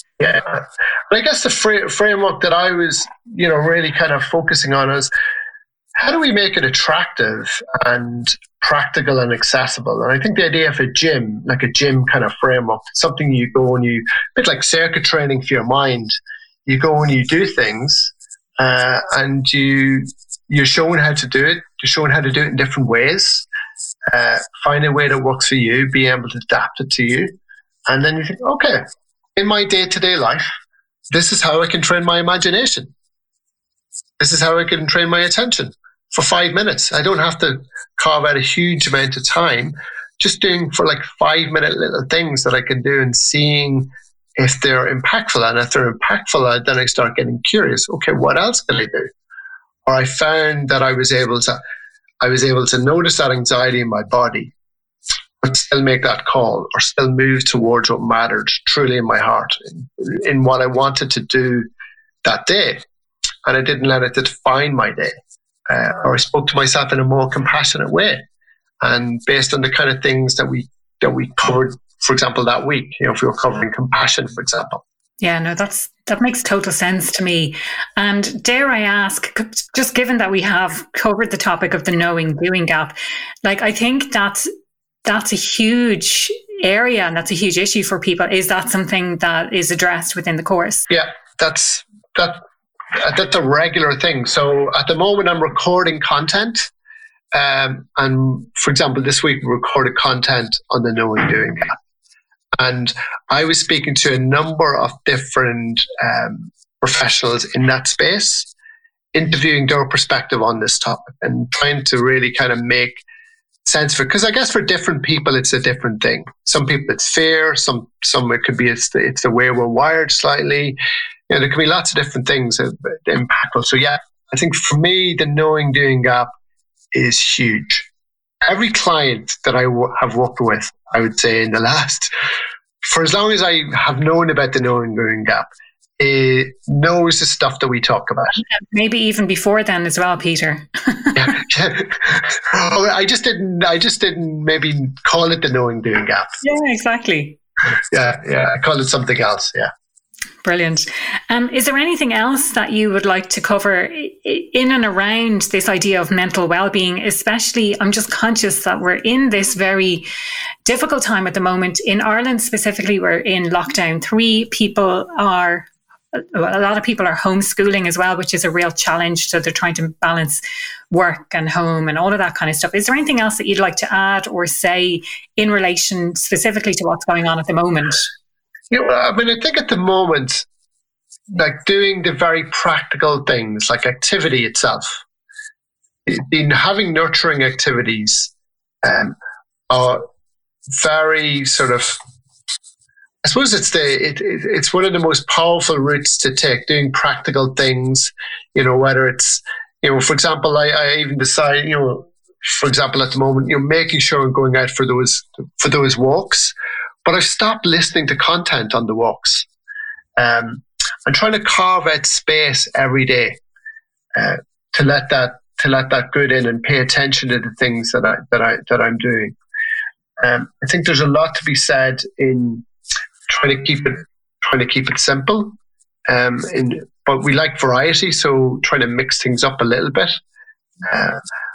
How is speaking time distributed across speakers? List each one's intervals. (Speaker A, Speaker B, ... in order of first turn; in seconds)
Speaker A: 0.2-5.1, 6.0-16.1, 16.6-23.4, 24.1-27.4, 27.9-28.8, 29.4-30.5, 31.1-32.9, 34.2-49.1, 49.8-51.6, 52.2-54.5, 55.4-61.7, 62.2-62.8, 63.4-65.2, 65.7-68.2, 68.8-74.8, 90.9-92.4, 92.9-96.7, 97.3-101.7, 102.6-108.5, 109.1-113.0, 113.7-120.8, 121.3-126.3, 126.9-127.9, 128.4-132.1, 132.8-138.3, 141.1-146.3, 147.9-149.7, 178.7-180.5, 181.3-185.0, 186.1-188.3, 188.8-189.2, 189.7-190.0, 190.8-192.0, 193.2-209.5, 210.2-213.4, 214.1-219.3, 220.2-222.7, 223.3-225.5, 226.1-230.2, 230.8-231.2
Speaker B: 75.2-84.5, 85.0-90.9, 138.3-141.3, 146.4-147.4, 150.4-160.1, 160.6-178.1